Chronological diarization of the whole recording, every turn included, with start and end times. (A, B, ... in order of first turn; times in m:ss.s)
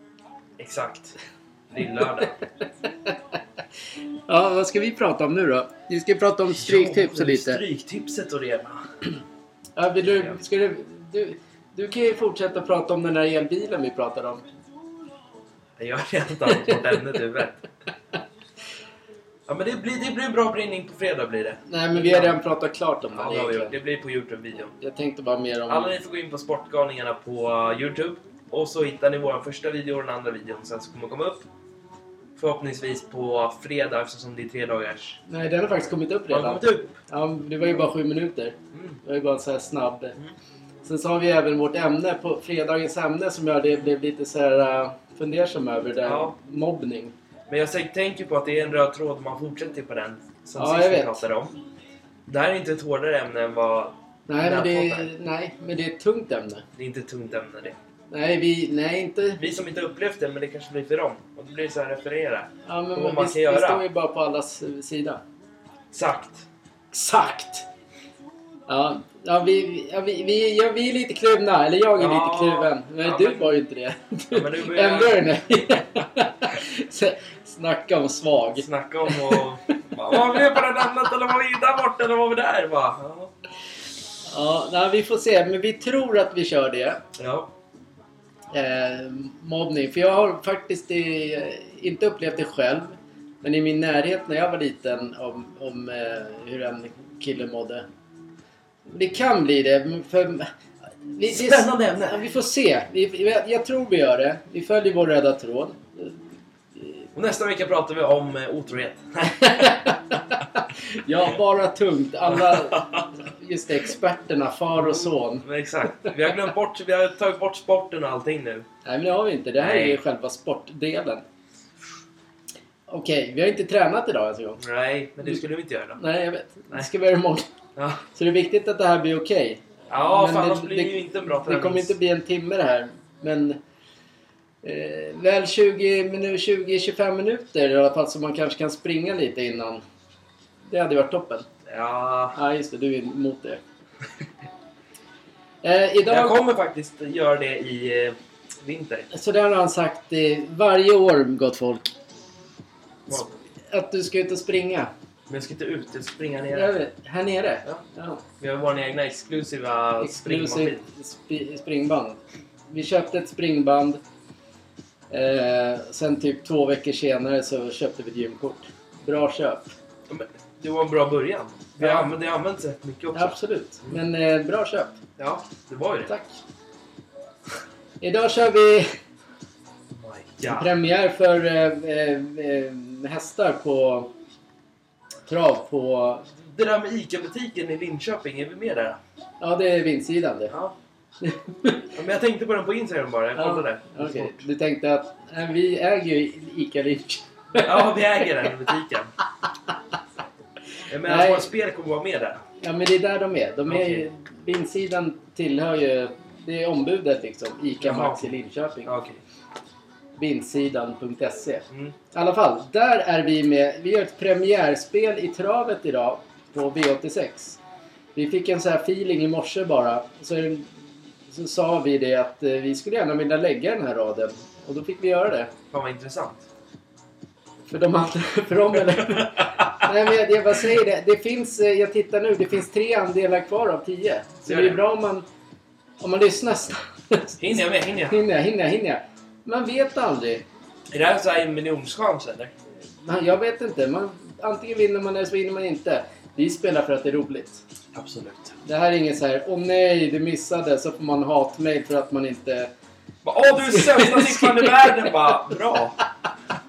0:00.6-0:01.1 A
0:01.7-0:02.4 A
0:04.3-0:07.6 B
0:06.5-0:08.8 A
0:09.8-0:14.4 B
0:10.0-0:10.4 A
0:15.8-0:17.6 A
0:16.5-0:16.8 B
0:19.5-0:22.4 A
0:21.7-0:23.8 B
0:23.1-0:24.7 A
0:24.8-0:26.0 B
0:25.7-0:31.5 A
0:32.4-0:35.2 A
0:35.3-0:40.2 B
0:36.3-0:37.0 A
0:38.7-0:39.0 A
0:40.8-0:47.1 B
0:46.0-0:46.3 A
0:47.5-0:51.5 A
0:50.6-0:51.2 B
0:52.3-0:55.1 A
0:54.3-0:56.6 B
0:56.8-0:57.8 A
0:58.1-0:59.4 B
0:59.4-1:03.8 A
1:02.7-1:05.2 B
1:05.9-1:06.5 A
1:06.9-1:07.7 B
1:08.7-1:19.4 B
1:12.0-1:13.5 A
1:14.3-1:15.8 A
1:18.6-1:23.3 A
1:20.2-1:20.4 B
1:24.3-1:27.0 B
1:27.2-1:27.5 A
1:28.5-1:37.8 B
1:38.9-1:40.5 B
1:41.1-1:46.2 B
1:41.3-1:42.2 A
1:46.8-1:47.1 B
1:47.2-1:49.9 A
1:49.4-1:55.5 B
1:52.3-1:53.0 A
1:54.8-1:58.7 A
1:58.8-2:01.2 B
1:59.6-2:00.0 A
2:02.9-2:04.6 B
2:04.6-2:06.0 A
2:06.0-2:07.5 B
2:07.8-2:08.0 A
2:08.1-2:13.6 B
2:09.9-2:12.0 A
2:14.6-2:19.8 B
2:20.7-2:21.5 B
2:21.7-2:22.4 A
2:22.4-2:23.6 B
2:25.6-2:26.4 B
2:26.1-2:29.1 A
2:29.1-2:31.9 B
2:33.7-2:34.9 B
2:35.3-2:36.7 A
2:36.5-2:38.2 B
2:38.4-2:40.8 A
2:40.0-2:42.2 B
2:42.7-2:44.0 B
2:45.1-2:49.7 B
2:50.1-2:54.0 A
2:51.8-2:52.1 B
2:53.1-2:55.0 B
2:55.2-2:56.1 A
2:56.1-2:56.4 B
2:58.0-2:58.9 B
2:59.9-3:00.7 A
3:00.4-3:04.1 B
3:05.3-3:06.3 B
3:06.5-3:09.0 A
3:09.4-3:10.6 B
3:10.5-3:10.8 A
3:11.2-3:11.9 B
3:12.0-3:14.4 A
3:13.4-3:18.3 B
3:17.6-3:19.1 A
3:20.9-3:22.4 A
3:21.0-3:21.5 B
3:22.6-3:28.9 B
3:23.7-3:24.0 A
3:27.8-3:28.3 A
3:28.9-3:29.2 A
3:30.2-3:37.6 B
3:38.2-3:40.8 B
3:41.3-3:45.5 B
3:45.7-3:46.4 A
3:47.7-3:55.2 B
3:49.0-3:49.6 A
3:54.5-3:54.8 A
3:56.0-4:00.4 B
3:57.4-3:58.2 A
4:00.9-4:02.5 A
4:03.0-4:07.6 B
4:07.9-4:08.6 A
4:08.6-4:12.7 B
4:13.2-4:16.0 A
4:13.7-4:15.1 B